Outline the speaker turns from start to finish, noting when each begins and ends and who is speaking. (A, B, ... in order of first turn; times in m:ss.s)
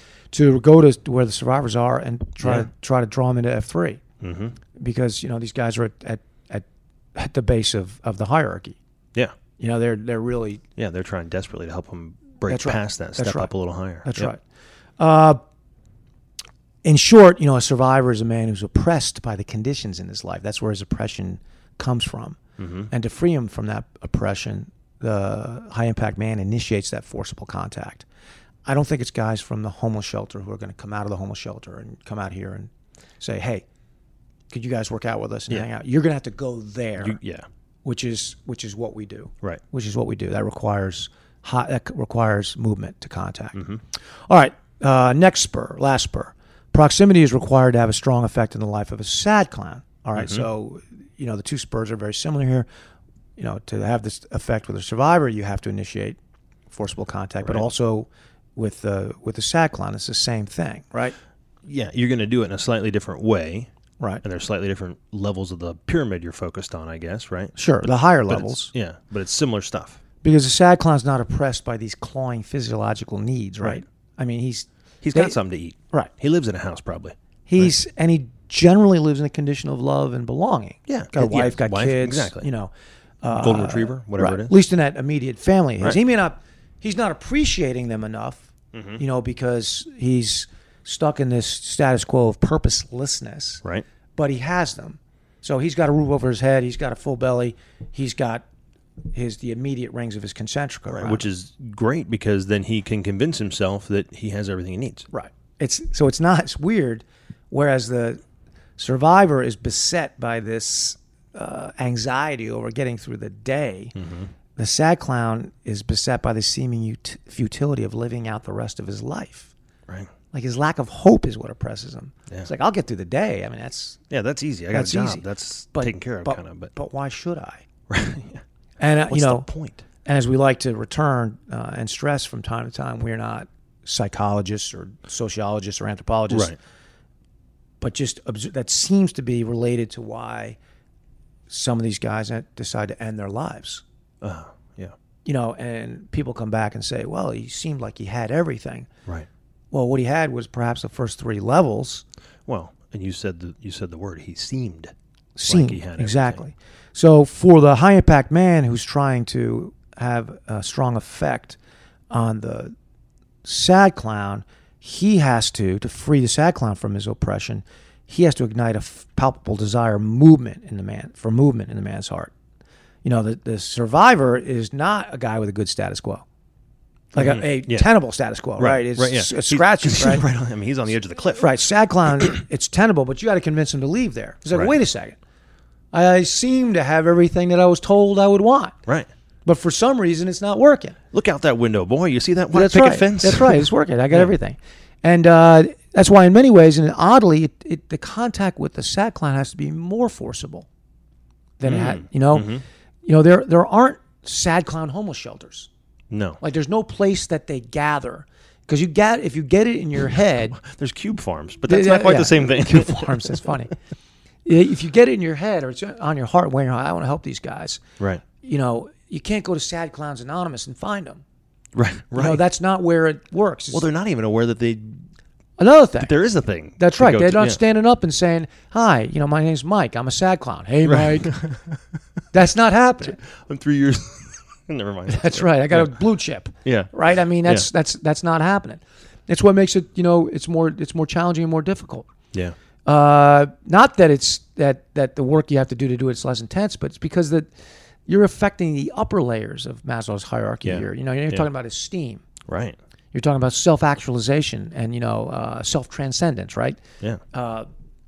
0:00.3-0:04.0 A
0:02.4-0:02.7 B
0:04.2-0:04.6 B
0:04.8-0:08.8 A
0:09.6-0:10.6 A
0:10.8-0:14.3 B
0:12.4-0:14.4 A
0:15.0-0:15.4 A
0:16.8-0:28.0 A
0:22.6-0:22.9 B
0:28.6-0:33.6 A
0:34.5-0:37.2 A
0:37.0-0:37.5 B
0:37.8-0:43.6 A
0:43.6-0:43.8 B
0:44.3-0:52.7 A
0:50.2-0:50.4 B
0:53.4-0:56.2 A
0:56.7-1:01.2 A
1:01.6-1:03.7 B
1:04.2-1:10.0 B
1:07.6-1:08.7 A
1:10.2-1:15.4 A
1:15.0-1:17.7 B
1:17.5-1:33.6 A
1:20.9-1:22.5 B
1:23.3-1:24.5 B
1:28.7-1:29.0 B
1:34.2-1:38.4 A
1:39.1-1:41.3 A
1:40.9-1:45.1 B
1:45.1-1:48.2 A
1:48.8-1:53.9 A
1:54.0-1:54.3 B
1:54.6-1:59.5 A
2:00.3-2:04.0 A
2:04.1-2:06.7 B
2:04.7-2:07.6 A
2:07.9-2:09.8 B
2:08.8-2:09.5 A
2:10.0-2:16.6 A
2:16.3-2:16.6 B
2:17.8-2:20.6 A
2:21.5-2:23.8 A
2:24.2-2:24.9 B
2:25.2-2:28.9 A
2:29.7-2:32.0 A
2:32.5-2:34.9 B
2:35.4-2:41.6 A
2:35.5-2:36.4 B
2:42.1-2:42.8 A
2:43.4-2:52.3 A
2:53.0-2:56.2 A
2:57.1-3:00.3 A
2:57.2-2:57.9 B
2:58.6-3:01.7 B
3:01.4-3:05.2 A
3:05.9-3:08.8 A
3:09.4-3:11.0 A
3:11.1-3:14.3 B
3:12.5-3:20.7 A
3:21.6-3:22.5 A
3:21.6-3:22.6 B
3:23.0-3:25.7 A
3:26.1-3:26.4 B
3:26.4-3:30.6 A
3:30.6-3:33.5 B
3:31.7-3:33.7 A
3:34.4-3:37.8 A
3:38.4-3:41.2 A
3:41.8-3:42.4 B
3:42.2-3:43.8 A
3:43.7-3:45.1 B
3:45.6-3:46.2 A
3:46.0-3:47.6 B
3:46.8-3:51.4 A
3:50.9-3:51.8 B
3:52.3-3:53.2 A
3:53.3-3:56.1 B
3:55.1-4:02.1 A
3:56.6-3:57.7 B
4:02.9-4:07.5 A
4:08.1-4:12.2 A
4:10.6-4:11.5 B
4:12.5-4:12.8 B
4:13.1-4:17.7 A